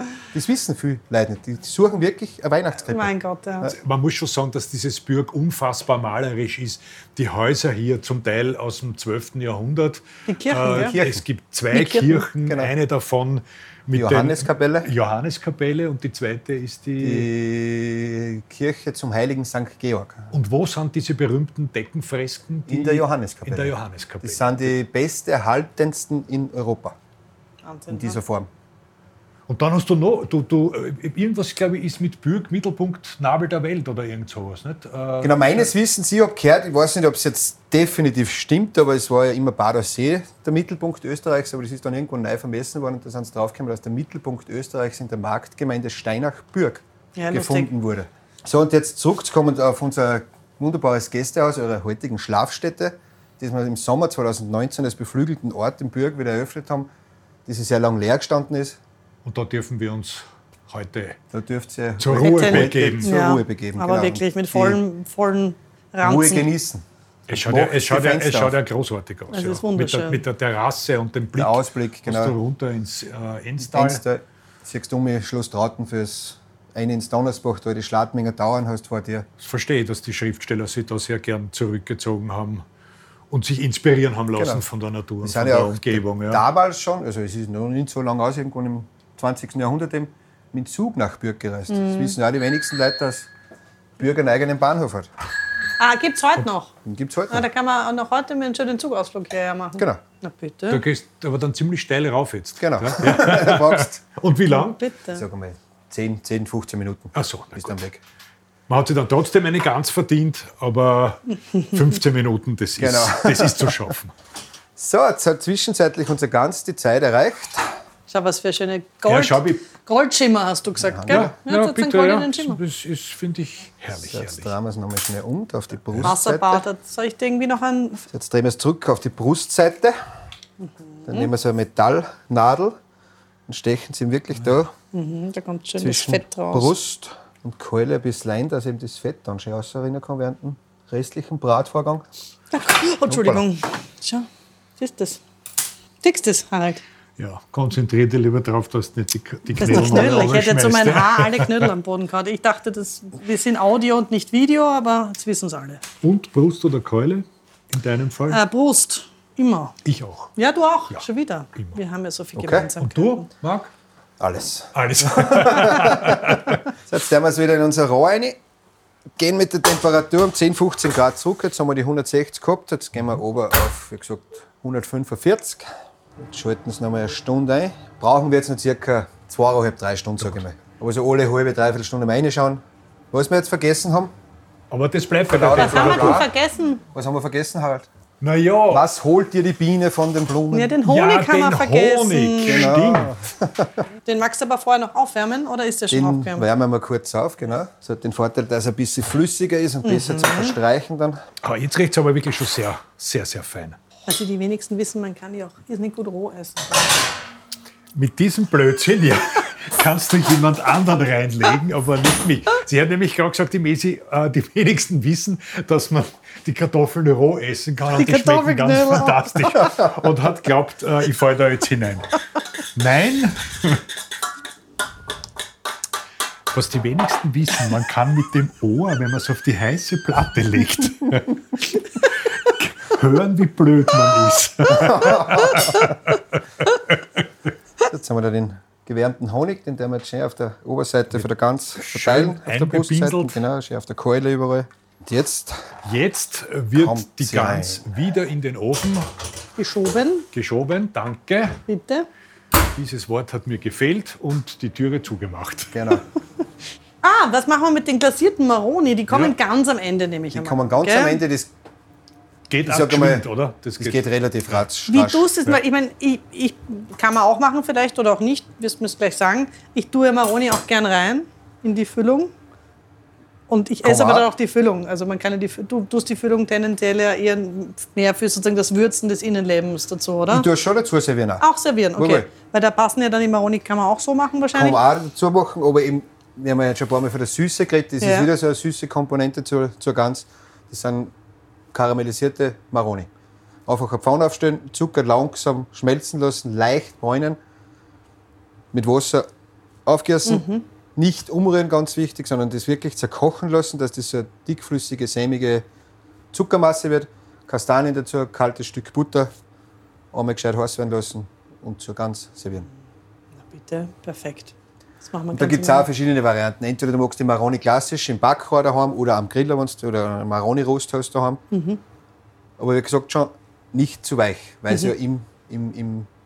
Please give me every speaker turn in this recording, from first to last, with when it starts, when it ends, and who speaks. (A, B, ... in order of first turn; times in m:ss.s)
0:00.3-0:03.7 A
0:02.9-0:03.7 B
0:03.7-0:17.3 C
0:10.3-0:11.0 B
0:10.7-0:11.2 A
0:11.7-0:12.3 B
0:12.4-0:12.7 A
0:13.9-0:14.9 A
0:17.0-0:20.3 A
0:20.3-0:24.7 C
0:22.7-0:27.0 A
0:27.6-0:28.2 B
0:27.9-0:28.5 A
0:29.5-0:35.7 C
0:35.2-0:56.9 A
0:47.2-0:47.7 B
0:57.5-0:58.8 A
0:59.2-1:01.2 C
1:01.3-1:04.8 A
1:02.0-1:03.1 C
1:02.2-1:06.5 B
1:06.0-1:08.6 A
1:07.3-1:14.0 C
1:09.3-1:10.2 B
1:11.4-1:12.4 A
1:13.6-1:19.3 A
1:19.4-1:22.7 C
1:23.3-1:26.4 C
1:24.4-1:24.6 A
1:25.2-1:33.3 A
1:31.7-1:32.2 B
1:34.0-1:35.1 A
1:35.8-1:36.8 B
1:36.8-1:37.4 A
1:37.3-1:40.8 B
1:40.7-1:44.8 C
1:42.6-1:44.0 A
1:44.5-1:45.2 B
1:45.1-1:48.0 A
1:47.1-1:47.8 C
1:48.7-1:54.1 C
1:52.8-1:53.8 A
1:54.8-1:57.7 A
1:58.1-2:02.6 B
1:59.1-1:59.6 C
2:00.8-2:01.4 A
2:01.1-2:04.5 C
2:04.0-2:06.6 A
2:06.0-2:08.0 B
2:08.1-2:10.0 A
2:10.6-2:11.3 B
2:11.1-2:12.8 A
2:13.5-2:14.7 A
2:14.9-2:16.7 B
2:15.8-2:22.1 A
2:22.5-2:24.3 B
2:23.1-2:23.4 A
2:24.8-2:25.2 B
2:26.0-2:26.8 B
2:27.2-2:31.7 C
2:29.6-2:35.8 B
2:36.0-2:38.4 C
2:38.3-2:39.8 B
2:39.8-2:40.3 C
2:40.4-2:43.3 B
2:42.4-2:42.7 A
2:42.8-2:43.7 C
2:44.2-2:48.4 A
2:44.7-2:46.6 C
2:49.2-2:55.7 A
2:56.2-3:04.1 A
3:04.7-3:06.3 C
3:05.3-3:06.3 A
3:05.6-3:06.8 B
3:06.9-3:07.9 A
3:08.2-3:08.9 C
3:08.7-3:10.8 A
3:10.5-3:12.7 B
3:10.8-3:13.1 C
3:12.4-3:13.8 A
3:14.0-3:16.4 B
3:15.9-3:21.2 A
3:19.8-3:20.6 B
3:21.4-3:23.8 C
3:24.1-3:27.0 B
3:27.9-3:42.1 C
3:38.0-3:39.8 B
3:42.8-3:43.8 C
3:46.5-3:57.3 C
3:54.7-3:56.0 A
3:57.9-4:05.7 A
4:01.8-4:03.4 C
4:05.8-4:09.1 C
4:06.8-4:07.9 A
4:09.6-4:10.3 B
4:10.3-4:11.6 C
4:11.7-4:12.1 B
4:12.7-4:15.8 C
4:15.7-4:16.0 A
4:17.0-4:21.2 B
4:19.1-4:19.4 C
4:20.3-4:21.5 A
4:22.5-4:24.1 C
4:22.6-4:23.3 A
4:23.8-4:25.3 A
4:24.9-4:32.3 B
4:33.5-4:40.5 B
4:33.8-4:34.3 A
4:40.3-4:41.4 A
4:41.4-4:44.8 B
4:42.0-4:42.3 A
4:44.5-4:51.1 A
4:48.0-4:48.3 B
4:51.7-4:53.1 A
4:53.7-4:57.4 A
4:58.7-4:59.3 A
4:59.9-5:05.7 A
5:00.3-5:00.6 B
5:06.3-5:09.3 A
5:10.1-5:12.7 A
5:13.5-5:15.9 B
5:15.3-5:21.4 A
5:21.5-5:21.8 B
5:22.6-5:26.1 A